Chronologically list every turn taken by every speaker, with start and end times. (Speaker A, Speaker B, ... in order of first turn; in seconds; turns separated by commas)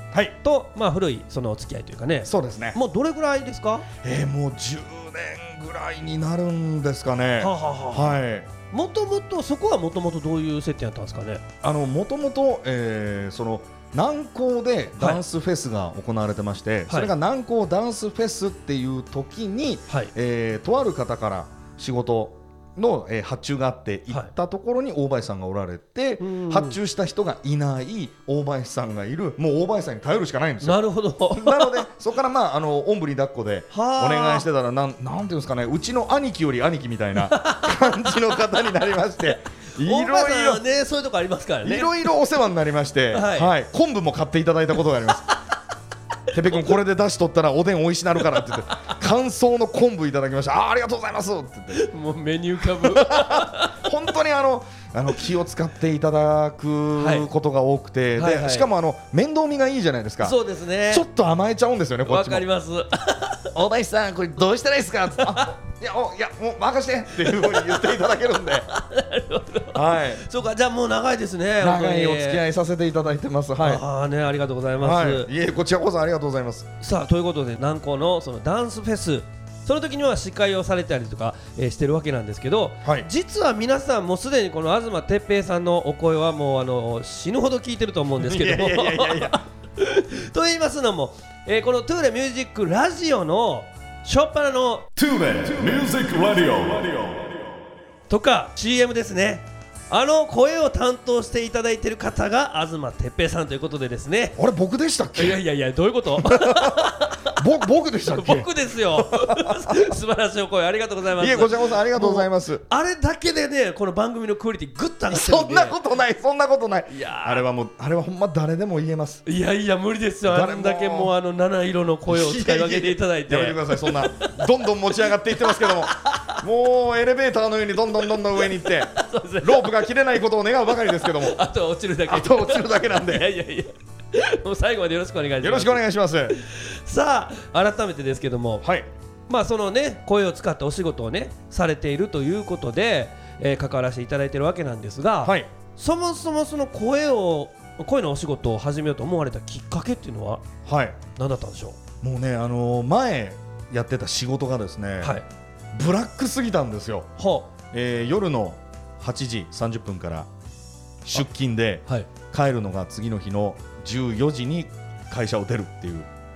Speaker A: 0.4-3.9, Speaker B: 2.2-2.8, Speaker B: 4.0-8.5, Speaker A: 7.4-8.2, Speaker A: 8.7-11.4, Speaker B: 11.6-40.6, Speaker A: 26.2-26.8, Speaker A: 30.6-31.9, Speaker A: 33.7-34.5, Speaker A: 37.2-38.0, Speaker A: 39.8-41.9, Speaker B: 41.6-45.3, Speaker A: 43.1-43.5, Speaker B: 46.3-51.9, Speaker A: 48.4-48.9, Speaker A: 51.7-53.8, Speaker B: 52.7-60.4, Speaker A: 57.0-57.3, Speaker A: 58.2-58.7, Speaker A: 60.2-61.1, Speaker B: 60.9-62.5, Speaker A: 62.1-63.5, Speaker B: 63.5-68.7, Speaker A: 65.2-65.5, Speaker A: 67.3-67.9, Speaker A: 68.7-72.4, Speaker B: 69.7-70.2, Speaker B: 71.6-73.8, Speaker A: 73.6-75.3, Speaker B: 74.8-76.7, Speaker A: 76.8-94.9, Speaker B: 82.8-83.1, Speaker B: 88.2-89.4, Speaker C: 95.0-97.5, Speaker A: 98.1-104.4, Speaker B: 104.4-105.4, Speaker A: 105.2-107.4, Speaker B: 106.2-110.0, Speaker A: 108.1-115.8, Speaker B: 111.2-112.7, Speaker B: 115.1-119.2, Speaker A: 116.9-117.5, Speaker A: 119.3-124.5, Speaker B: 120.3-121.1, Speaker B: 122.1-131.4, Speaker A: 125.3-126.4, Speaker A: 128.4-129.8, Speaker A: 130.9-135.8, Speaker B: 132.1-133.3, Speaker B: 135.4-136.4, Speaker A: 136.3-138.7, Speaker B: 138.6-138.9, Speaker A: 139.3-150.4, Speaker B: 145.2-145.5, Speaker B: 150.7-151.0, Speaker A: 151.2-151.8, Speaker B: 152.0-155.2, Speaker B: 155.7-157.1, Speaker A: 157.2-157.5, Speaker B: 157.7-160.3, Speaker B: 161.0-166.1